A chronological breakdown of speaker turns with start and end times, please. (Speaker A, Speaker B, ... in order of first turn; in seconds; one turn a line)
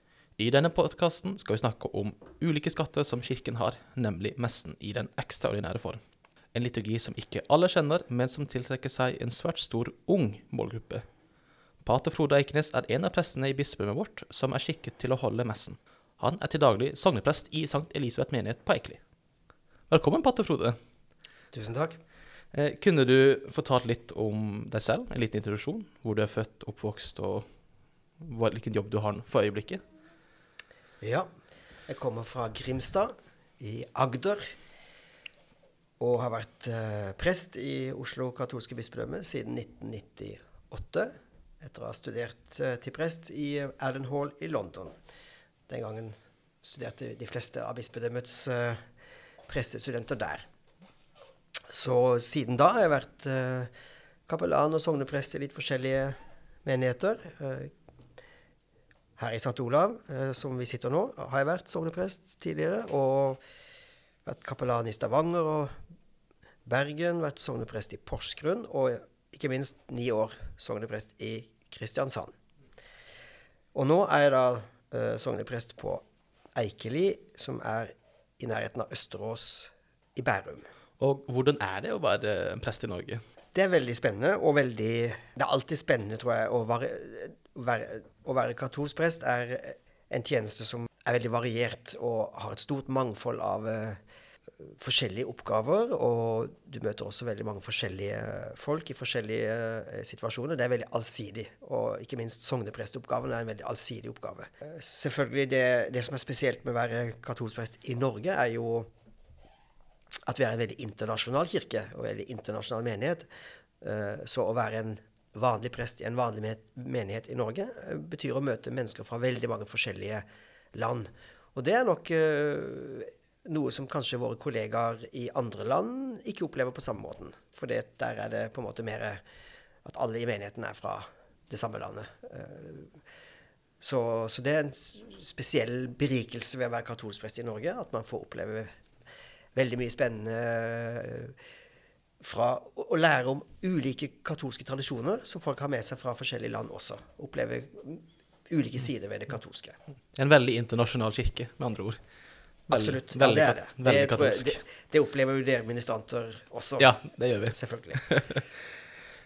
Speaker A: 0.4-11.0
Speaker A: 11.8-19.0
Speaker A: 19.9-20.8
Speaker B: 21.5-22.0
Speaker A: 22.5-27.5
Speaker A: 28.2-29.8
Speaker B: 31.0-31.3
Speaker B: 31.9-34.4
Speaker B: 36.0-44.9
Speaker B: 45.7-48.8
Speaker B: 49.5-50.5
Speaker B: 51.7-53.7
Speaker B: 54.3-57.7
Speaker B: 59.2-63.4
Speaker B: 64.2-65.7
Speaker B: 66.7-72.3
Speaker B: 73.7-76.0
Speaker B: 76.5-80.6
Speaker A: 81.0-83.2
Speaker B: 83.5-94.0
Speaker B: 94.6-108.9
Speaker B: 110.2-113.3
Speaker B: 113.8-129.2
Speaker B: 129.8-132.9
Speaker B: 133.8-138.7
Speaker B: 139.5-141.3
Speaker B: 142.2-149.8
Speaker A: 150.2-152.0
Speaker B: 152.7-156.9
Speaker A: 152.7-154.6
Speaker A: 156.8-158.6
Speaker B: 157.5-158.0